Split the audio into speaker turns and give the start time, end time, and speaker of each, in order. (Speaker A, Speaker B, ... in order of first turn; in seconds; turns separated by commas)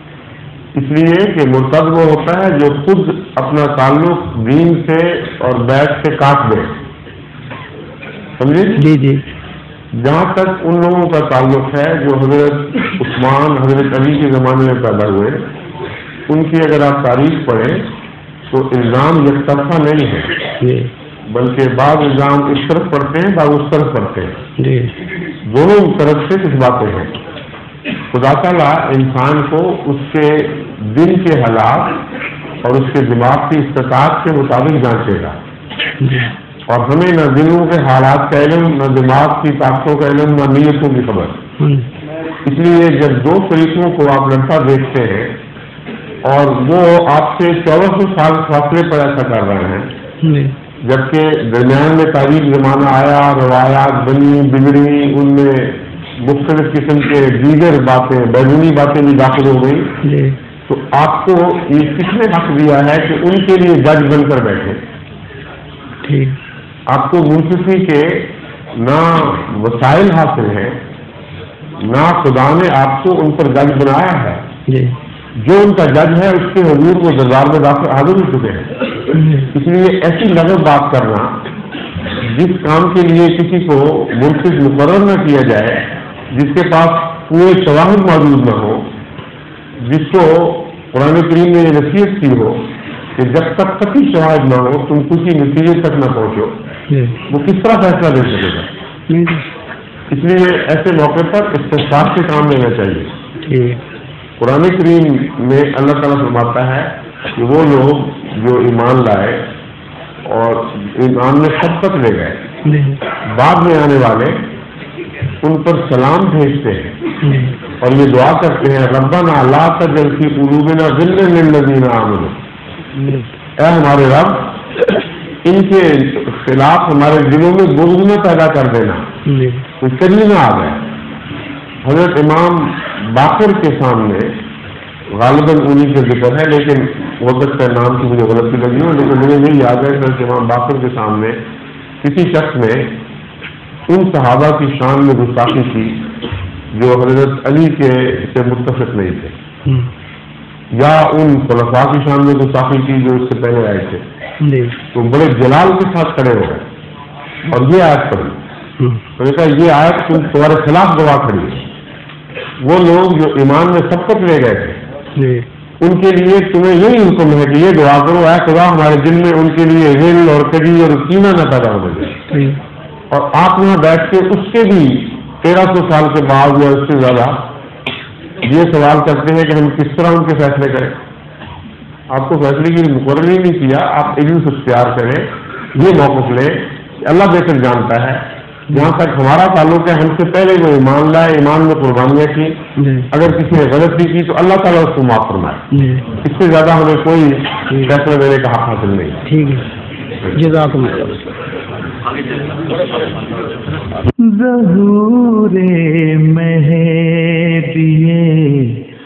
Speaker A: 0.8-6.7, Speaker A: 8.4-8.9, Speaker B: 8.8-9.2, Speaker A: 9.9-15.4, Speaker A: 16.3-17.9, Speaker A: 18.5-20.3, Speaker B: 20.6-20.9, Speaker A: 21.3-24.4, Speaker B: 24.6-24.9, Speaker A: 25.5-27.1, Speaker A: 28.1-32.0, Speaker A: 32.6-35.4, Speaker A: 36.7-41.4, Speaker A: 42.5-45.4, Speaker A: 46.2-49.9, Speaker A: 50.8-59.9, Speaker B: 60.0-60.4, Speaker A: 60.7-64.8, Speaker B: 66.1-66.4, Speaker A: 66.9-70.8, Speaker A: 71.8-74.4, Speaker B: 74.7-75.0, Speaker A: 75.4-78.7, Speaker B: 79.2-79.5, Speaker A: 79.5-81.4, Speaker A: 82.2-88.9, Speaker A: 89.8-92.7, Speaker A: 93.2-96.6, Speaker A: 97.3-98.7, Speaker B: 99.1-99.4, Speaker A: 100.1-103.1, Speaker B: 103.5-103.8, Speaker A: 104.4-109.4, Speaker A: 110.3-112.4, Speaker B: 112.7-113.0, Speaker A: 113.3-114.4, Speaker A: 115.4-117.0, Speaker B: 117.3-117.5, Speaker A: 117.8-122.4, Speaker A: 123.6-124.6, Speaker A: 125.5-129.1, Speaker B: 129.3-129.6, Speaker A: 129.8-130.8, Speaker A: 131.8-134.4, Speaker A: 135.1-141.4, Speaker A: 142.0-143.0, Speaker A: 143.9-146.1, Speaker A: 146.7-149.3, Speaker A: 150.7-154.0, Speaker A: 154.9-156.7, Speaker A: 157.5-158.4, Speaker A: 159.2-161.7, Speaker A: 162.6-164.8, Speaker A: 165.8-172.2, Speaker A: 173.1-177.4, Speaker A: 178.4-180.9, Speaker A: 182.1-192.6, Speaker A: 193.1-195.6, Speaker A: 196.2-199.2, Speaker B: 199.3-199.6, Speaker B: 200.4-201.2, Speaker C: 204.2-208.8